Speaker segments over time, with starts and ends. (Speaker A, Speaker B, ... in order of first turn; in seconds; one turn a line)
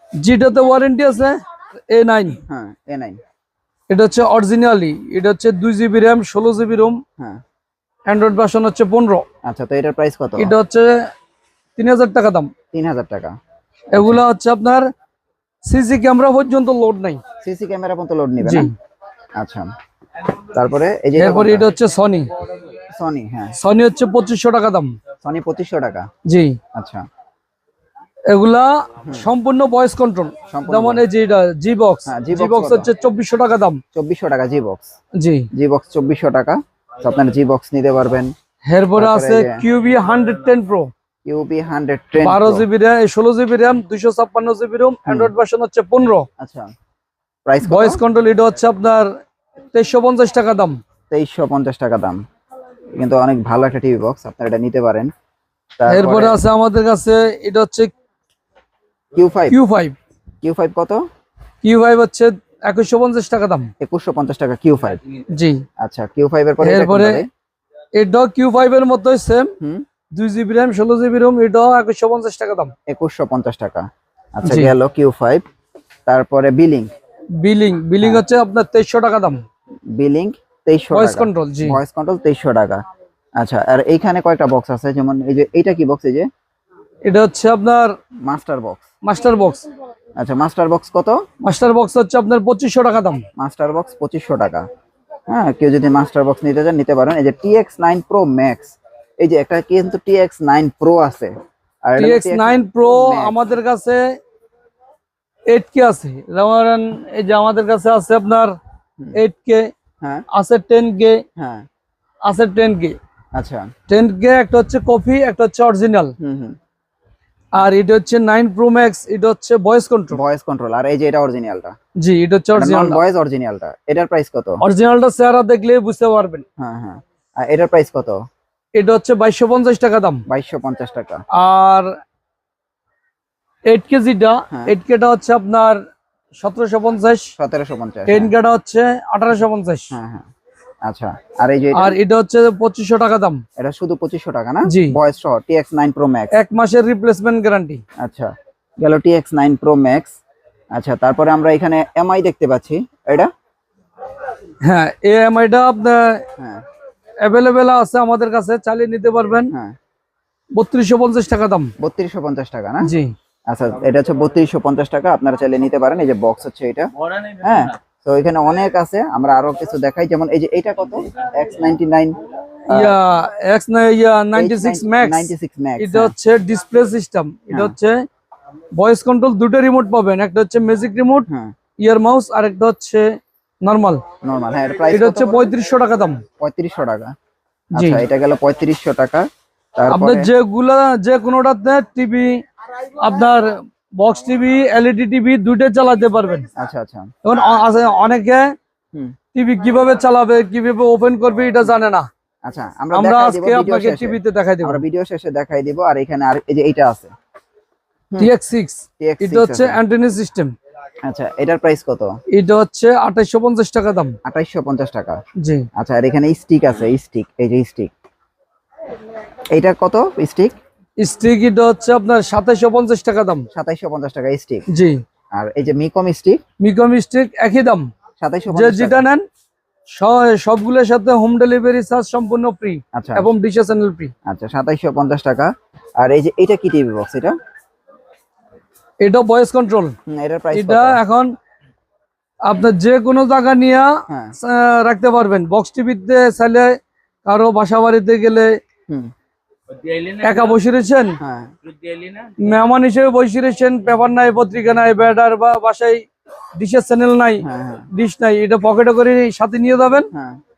Speaker A: 0.2-1.4
Speaker A: 1.9-2.4
Speaker B: 2.5-3.2
Speaker A: 3.9-7.0
Speaker A: 8.1-9.2
Speaker B: 9.4-10.5
Speaker A: 10.4-11.1
Speaker A: 11.8-12.5
Speaker B: 12.7-13.3
Speaker A: 13.9-14.9
Speaker B: 13.9-14.2
Speaker A: 15.7-17.2
Speaker B: 17.4-18.7
Speaker A: 18.4-18.7
Speaker B: 19.4-19.7
Speaker B: 20.5-21.7
Speaker A: 21.2-22.3
Speaker B: 22.9-23.6
Speaker A: 23.6-24.9
Speaker B: 25.2-26.1
Speaker A: 26.2-26.6
Speaker B: 26.8-27.0
Speaker A: 28.3-33.8
Speaker B: 29.0-29.3
Speaker B: 30.5-31.0
Speaker B: 32.1-32.9
Speaker B: 33.9-34.9
Speaker A: 35.2-35.5
Speaker B: 35.5-38.3
Speaker A: 38.6-40.9
Speaker B: 39.0-39.6
Speaker B: 41.2-42.7
Speaker A: 42.2-46.2
Speaker B: 45.1-45.3
Speaker B: 46.4-46.7
Speaker B: 47.5-48.0
Speaker A: 47.6-49.1
Speaker A: 49.7-50.8
Speaker B: 51.1-52.2
Speaker B: 53.0-55.1
Speaker B: 55.8-56.4
Speaker A: 55.9-57.9
Speaker B: 59.1-59.6
Speaker A: 59.5-60.0
Speaker B: 60.4-61.0
Speaker A: 61.6-63.7
Speaker B: 63.8-65.0
Speaker A: 65.3-65.6
Speaker B: 65.8-67.3
Speaker A: 66.6-67.2
Speaker A: 68.0-69.5
Speaker A: 70.1-72.7
Speaker B: 72.9-75.4
Speaker A: 74.4-74.7
Speaker B: 76.1-76.9
Speaker A: 77.4-79.4
Speaker B: 79.9-82.8
Speaker A: 80.9-81.8
Speaker B: 83.4-86.3
Speaker A: 87.0-87.9
Speaker B: 88.2-88.9
Speaker A: 89.0-89.7
Speaker B: 90.2-91.2
Speaker A: 91.4-93.2
Speaker B: 93.4-94.6
Speaker B: 95.3-101.3
Speaker B: 101.8-103.6
Speaker A: 102.0-104.0
Speaker A: 105.5-108.5
Speaker A: 109.1-109.7
Speaker A: 110.3-111.2
Speaker B: 111.4-111.6
Speaker A: 112.2-112.9
Speaker B: 113.3-113.7
Speaker A: 113.9-116.1
Speaker B: 116.2-116.5
Speaker A: 117.5-120.2
Speaker B: 120.1-121.8
Speaker A: 122.0-123.0
Speaker B: 122.5-124.6
Speaker A: 124.6-126.4
Speaker B: 126.6-128.2
Speaker A: 128.8-130.2
Speaker B: 130.3-131.2
Speaker A: 131.3-131.9
Speaker A: 133.7-135.8
Speaker A: 136.4-137.3
Speaker B: 137.4-138.3
Speaker A: 138.1-139.9
Speaker B: 139.9-140.3
Speaker B: 140.9-142.0
Speaker A: 141.8-143.4
Speaker B: 143.6-146.3
Speaker A: 144.7-145.0
Speaker A: 146.3-147.8
Speaker B: 148.0-150.2
Speaker B: 150.8-153.3
Speaker A: 154.6-156.2
Speaker B: 156.4-156.6
Speaker A: 157.2-159.5
Speaker A: 160.6-161.7
Speaker B: 161.8-162.9
Speaker A: 162.8-163.1
Speaker B: 163.5-172.2
Speaker B: 172.7-173.0
Speaker A: 172.7-178.0
Speaker B: 174.3-176.1
Speaker A: 178.8-181.3
Speaker A: 181.8-183.1
Speaker A: 183.6-184.0
Speaker B: 184.2-185.5
Speaker A: 184.9-186.2
Speaker B: 186.4-187.1
Speaker A: 187.8-188.0
Speaker B: 187.8-190.3
Speaker A: 189.9-192.4
Speaker A: 193.0-196.5
Speaker B: 196.6-197.1
Speaker A: 197.2-198.5
Speaker A: 199.3-202.1
Speaker B: 202.5-207.1
Speaker A: 202.9-204.8
Speaker A: 208.2-210.5
Speaker B: 209.0-209.8
Speaker B: 211.1-212.1
Speaker A: 212.3-214.1
Speaker B: 214.2-215.2
Speaker A: 215.4-215.7
Speaker B: 215.8-217.9
Speaker B: 219.5-220.5
Speaker A: 221.0-223.4
Speaker B: 223.5-224.6
Speaker A: 224.7-225.0
Speaker B: 225.4-226.4
Speaker A: 226.6-227.9
Speaker B: 228.2-229.1
Speaker A: 228.5-229.2
Speaker A: 229.9-234.1
Speaker B: 232.9-233.3
Speaker B: 234.3-237.3
Speaker A: 239.0-239.9
Speaker B: 240.1-241.0
Speaker A: 240.5-241.3
Speaker A: 242.4-246.7
Speaker B: 244.1-244.3
Speaker A: 247.2-248.5
Speaker A: 250.1-251.2
Speaker B: 251.2-251.5
Speaker A: 252.4-256.0
Speaker A: 256.5-260.1
Speaker B: 257.4-257.9